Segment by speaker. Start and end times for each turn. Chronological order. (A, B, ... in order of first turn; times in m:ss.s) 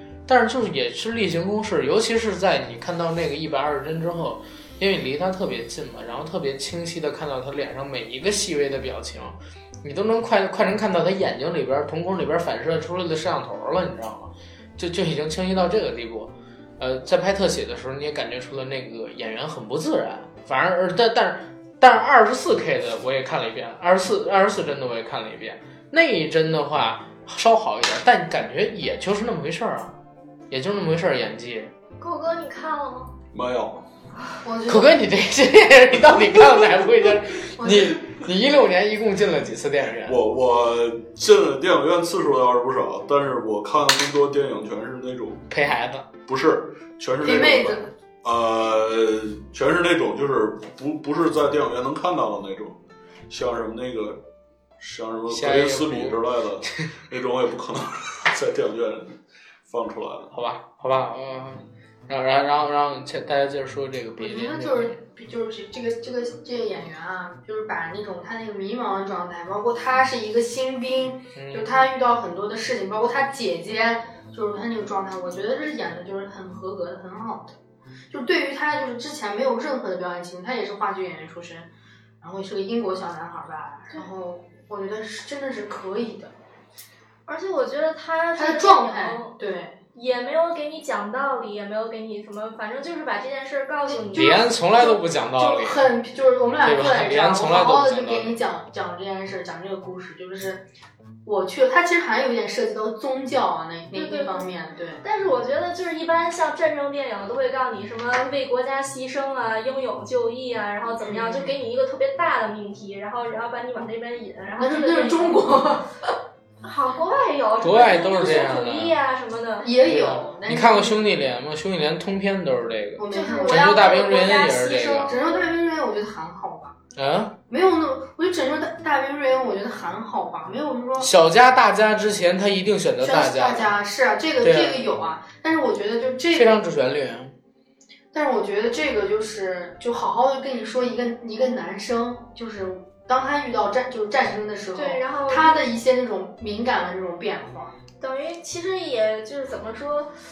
0:00.3-0:30.0 A
0:30.5-0:31.7 A
0:32.0-0:33.1 B
0:33.3-0:33.8 C
0:34.4-0:35.0 D
0:34.7-0:40.2 A
0:37.5-0:38.0 D
0:40.0-0:45.5 C
0:45.5-0:46.1 A
0:46.2-0:54.2 C
0:47.2-0:47.9 D
0:54.8-1:00.3 C
0:55.3-0:56.2 A
1:00.3-1:05.0 A
1:04.2-1:17.6 D
1:11.3-1:11.8 A
1:18.1-1:21.7 D
1:22.2-1:26.3 D
1:27.3-1:29.3 B
1:28.3-1:29.8 D
1:29.9-1:34.4 B
1:33.8-1:40.6 D
1:34.1-1:35.9 A
1:36.6-1:38.3 A
1:41.2-1:45.0 D
1:43.9-1:44.5 B
1:45.0-1:55.4 B
1:51.0-1:51.6 D
1:54.6-1:55.9 D
1:56.6-1:59.7 B
1:57.6-1:59.0 A
1:59.6-2:01.0 D
1:59.8-2:05.1 A
2:03.0-2:04.0 D
2:03.1-2:05.4 B
2:04.7-2:06.8 D
2:07.0-2:07.3 A
2:07.5-2:11.1 D
2:11.0-2:13.7 A
2:13.0-2:16.6 D
2:14.4-2:14.8 A
2:16.3-2:17.3 A
2:18.1-2:27.7 D
2:24.8-2:25.6 B
2:28.0-2:30.1 B